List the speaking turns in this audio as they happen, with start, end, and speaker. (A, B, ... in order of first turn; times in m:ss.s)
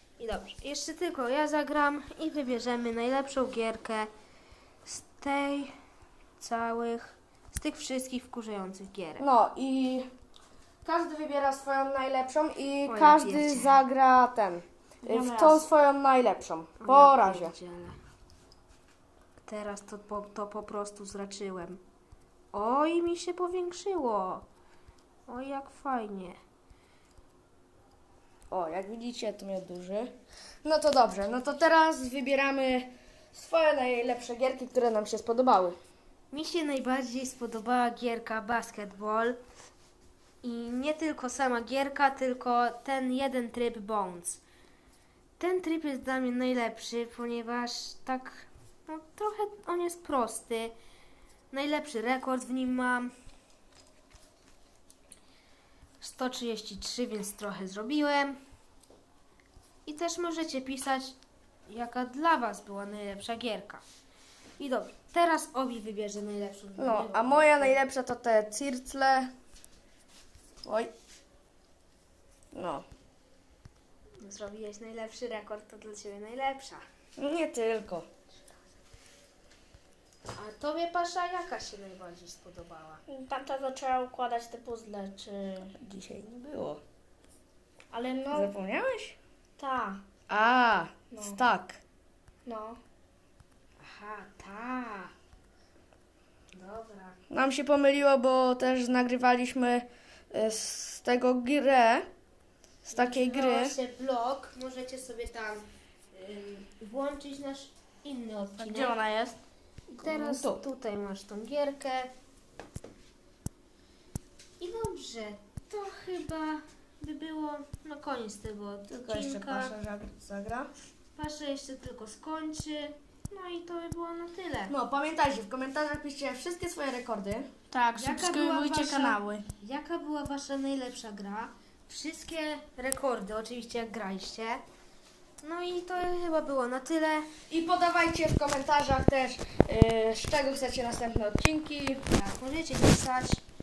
0:00.2-0:04.1 A
0:04.8-0:05.8 A
0:06.4-0:09.2 A
0:09.2-0:10.1 B
0:10.8-0:17.6 B
0:12.9-0:13.8 A
0:15.0-0:15.6 C
0:16.8-0:18.0 A
0:19.4-0:21.8 A
0:22.5-0:24.5 A
0:25.3-0:26.4 A
0:28.5-0:30.1 B
0:30.6-0:35.8 B
0:36.3-0:39.4 A
0:40.4-0:44.4 A
0:45.4-0:50.8 A
0:51.5-0:53.1 A
0:56.0-0:58.4 A
0:59.9-1:01.2 A
1:01.7-1:03.8 A
1:04.6-1:07.8 A
1:06.8-1:09.3 B
1:10.6-1:10.9 B
1:12.5-1:12.9 B
1:14.2-1:16.8 A
1:17.2-1:18.1 B
1:20.4-1:23.0 A
1:23.1-1:25.7 C
1:25.8-1:26.8 B
1:27.9-1:28.5 C
1:28.3-1:29.2 B
1:29.6-1:30.0 C
1:30.3-1:31.8 B
1:31.1-1:31.4 C
1:32.5-1:32.8 C
1:33.8-1:35.1 A
1:36.5-1:37.2 A
1:37.3-1:42.1 B
1:42.9-1:43.8 B
1:42.9-1:49.0 A
1:48.6-1:48.9 C
1:48.7-1:49.4 B
1:49.9-1:52.1 A
1:50.0-1:50.6 B
1:54.6-1:59.8 A
1:58.9-2:00.7 B
2:01.2-2:04.7 A
2:04.7-2:07.6 B
2:07.7-2:09.4 C
2:08.0-2:14.6 A
2:15.4-2:17.3 A
2:17.5-2:22.0 B
2:22.1-2:23.4 A